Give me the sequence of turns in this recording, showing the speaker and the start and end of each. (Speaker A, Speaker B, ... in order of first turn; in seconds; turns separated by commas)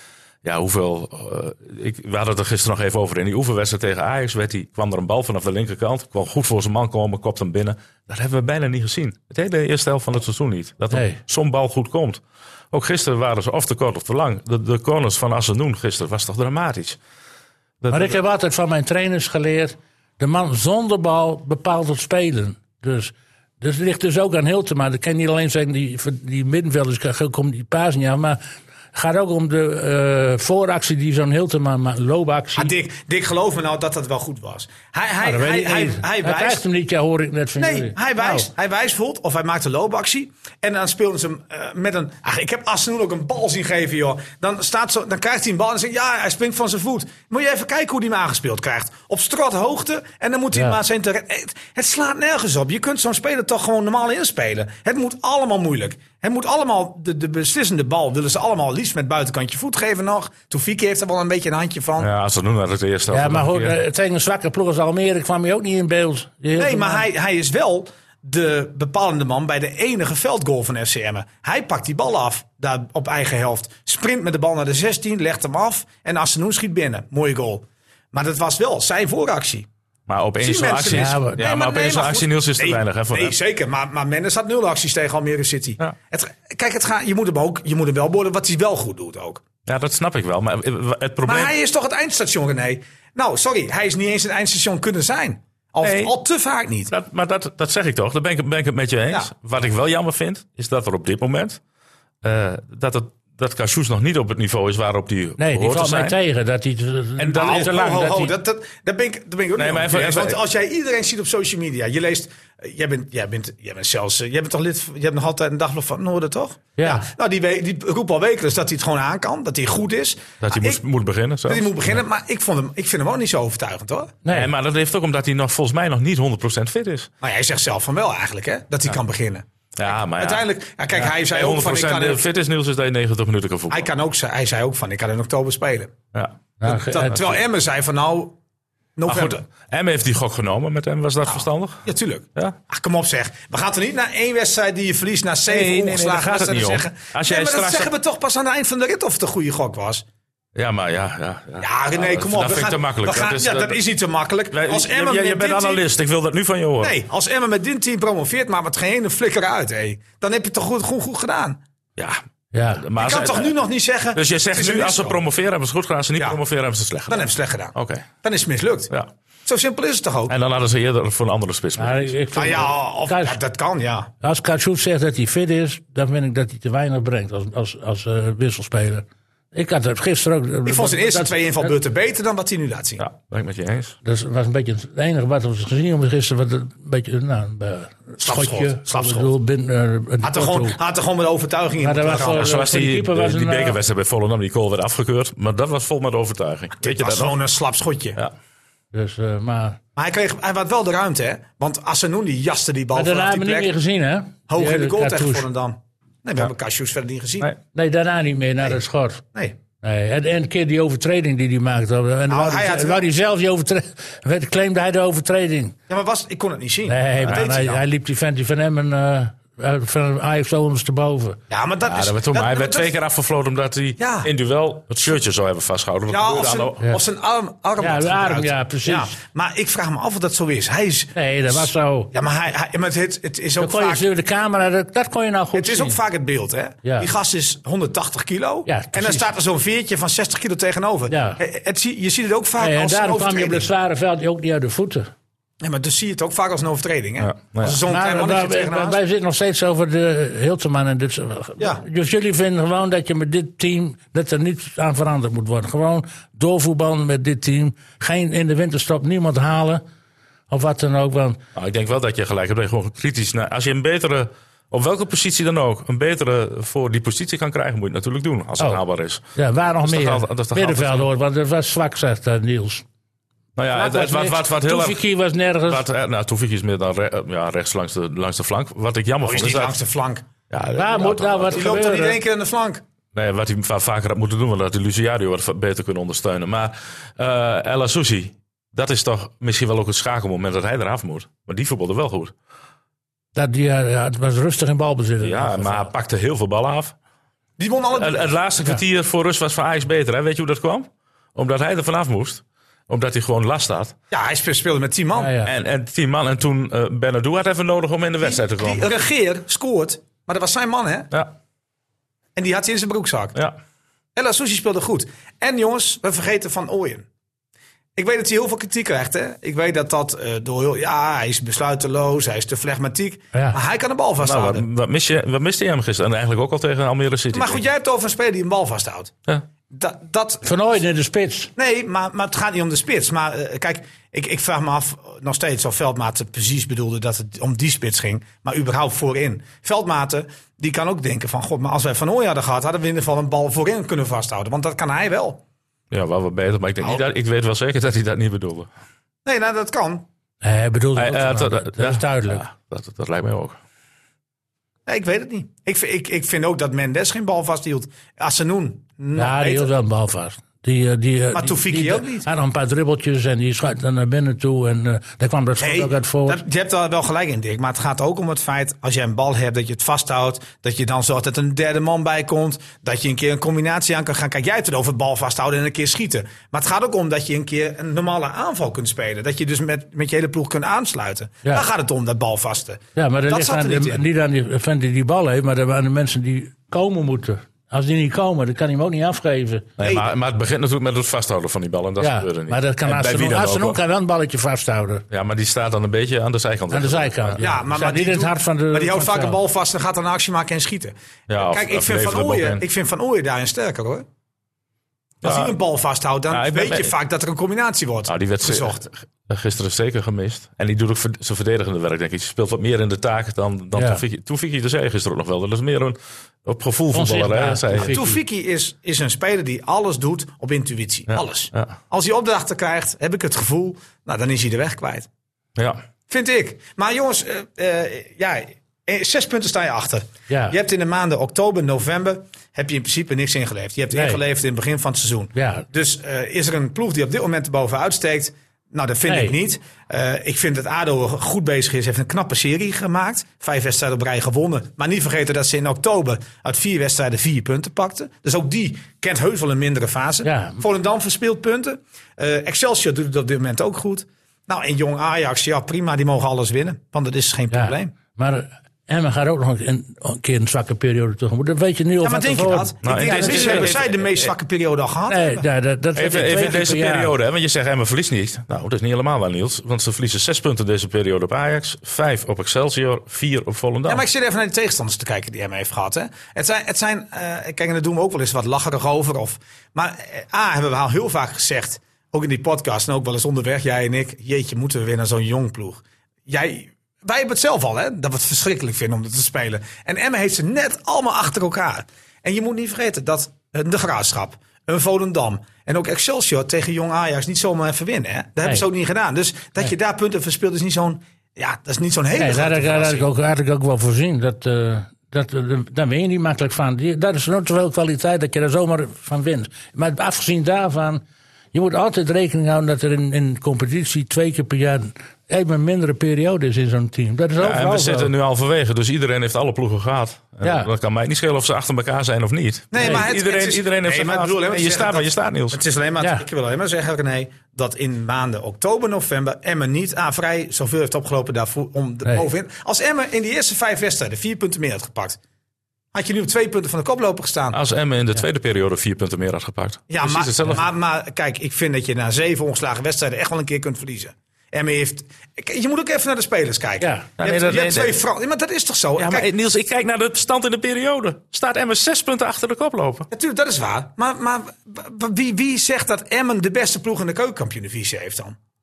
Speaker A: 0.4-12.2, Speaker B: 10.9-11.2, Speaker A: 12.7-17.0, Speaker A: 17.8-18.2, Speaker B: 17.9-28.4, Speaker B: 28.9-32.7, Speaker C: 32.5-36.6, Speaker B: 35.2-38.5, Speaker C: 37.6-62.1, Speaker A: 62.0-63.8, Speaker B: 63.1-67.1, Speaker C: 66.6-79.7, Speaker A: 80.1-83.3, Speaker C: 80.4-89.4, Speaker B: 80.9-81.4, Speaker A: 89.7-91.5, Speaker C: 91.2-96.9, Speaker A: 95.8-96.1, Speaker A: 96.9-101.6, Speaker A: 102.2-106.2, Speaker B: 105.4-108.3, Speaker A: 107.2-107.8, Speaker C: 107.3-120.8, Speaker A: 109.6-110.4, Speaker B: 116.8-117.1, Speaker A: 120.4-121.8, Speaker C: 121.5-124.2, Speaker B: 124.2-124.5, Speaker A: 124.3-127.1, Speaker C: 127.2-132.2, Speaker A: 129.8-133.9, Speaker C: 133.7-135.9, Speaker B: 136.6-137.3, Speaker C: 136.7-138.4, Speaker C: 139.0-139.4, Speaker A: 139.1-141.8, Speaker C: 141.3-150.1, Speaker A: 145.5-147.9, Speaker A: 150.6-153.8, Speaker C: 151.6-155.8, Speaker A: 154.5-157.0, Speaker C: 156.8-161.6, Speaker B: 162.5-162.8, Speaker A: 162.8-163.5, Speaker C: 163.0-165.2, Speaker A: 164.2-168.1, Speaker C: 167.1-168.9, Speaker C: 169.5-170.3, Speaker A: 170.3-172.1, Speaker B: 171.8-173.4, Speaker C: 172.3-174.1, Speaker B: 174.2-181.7, Speaker C: 180.7-183.0, Speaker A: 183.0-184.0, Speaker B: 184.0-190.8, Speaker C: 188.2-189.3, Speaker C: 190.2-192.5, Speaker B: 191.8-193.8, Speaker A: 192.3-197.3, Speaker C: 196.8-198.2, Speaker B: 198.9-199.8, Speaker C: 200.0-203.7, Speaker B: 202.9-205.5, Speaker C: 204.5-207.5, Speaker B: 207.7-209.2, Speaker B: 209.8-215.8, Speaker C: 212.3-213.1, Speaker C: 215.9-217.8, Speaker B: 216.9-221.4, Speaker C: 221.5-222.9, Speaker A: 221.8-226.8, Speaker C: 224.0-224.3, Speaker C: 226.1-234.1, Speaker B: 227.8-229.1, Speaker B: 231.2-232.1, Speaker B: 233.6-236.0, Speaker C: 235.5-243.7, Speaker B: 236.8-237.1, Speaker B: 238.7-239.3, Speaker B: 241.1-241.4, Speaker B: 242.6-245.1, Speaker C: 245.6-249.0, Speaker A: 247.2-247.8, Speaker B: 247.8-259.8, Speaker B: 260.5-261.4, Speaker A: 261.6-269.2, Speaker B: 269.4-272.8, Speaker A: 269.8-271.1, Speaker A: 273.6-275.0, Speaker B: 273.7-275.8, Speaker A: 275.7-279.8, Speaker C: 279.2-280.2, Speaker A: 280.5-281.7, Speaker B: 280.8-282.2, Speaker C: 281.5-282.8, Speaker A: 283.1-292.3, Speaker B: 293.4-295.9, Speaker A: 295.2-296.9, Speaker C: 297.6-298.3, Speaker A: 298.0-303.9, Speaker C: 304.1-305.3, Speaker B: 305.2-305.5, Speaker A: 305.4-308.9, Speaker C: 308.2-311.1, Speaker C: 312.4-313.4, Speaker C: 314.2-317.1, Speaker C: 318.0-324.7, Speaker B: 323.3-323.6, Speaker A: 324.2-327.6, Speaker C: 327.3-329.1, Speaker C: 329.7-330.5, Speaker B: 330.4-331.5, Speaker C: 331.6-345.4, Speaker A: 345.9-348.7, Speaker C: 349.2-350.1, Speaker B: 350.4-352.4, Speaker A: 351.0-353.6, Speaker C: 354.9-359.7, Speaker B: 359.2-366.4, Speaker C: 361.3-362.3, Speaker C: 365.6-384.1, Speaker B: 382.9-389.7, Speaker A: 389.8-393.8, Speaker C: 389.8-390.1, Speaker B: 392.0-395.0, Speaker A: 395.1-397.4, Speaker B: 396.7-399.4, Speaker C: 397.4-404.1, Speaker A: 401.3-402.6, Speaker A: 405.2-405.6, Speaker C: 405.2-408.9, Speaker A: 406.3-406.9, Speaker A: 408.1-418.0, Speaker B: 413.8-414.0, Speaker B: 416.9-418.2, Speaker C: 417.9-425.1, Speaker A: 421.1-421.8, Speaker A: 425.6-425.8, Speaker C: 426.1-457.9, Speaker B: 430.3-430.6, Speaker B: 433.9-434.2, Speaker B: 435.4-435.6, Speaker B: 439.1-439.4, Speaker B: 450.2-450.6, Speaker B: 457.5-463.8, Speaker C: 462.0-465.5, Speaker A: 462.8-464.0, Speaker B: 465.1-467.1, Speaker A: 466.0-474.1, Speaker C: 473.9-503.1, Speaker B: 502.2-518.1, Speaker A: 517.4-525.6, Speaker B: 520.4-520.7, Speaker C: 522.7-535.2, Speaker C: 535.9-537.6, Speaker A: 537.5-540.6, Speaker C: 539.9-549.3, Speaker B: 546.8-547.1, Speaker A: 547.2-548.0, Speaker A: 549.0-553.1, Speaker C: 553.1-558.4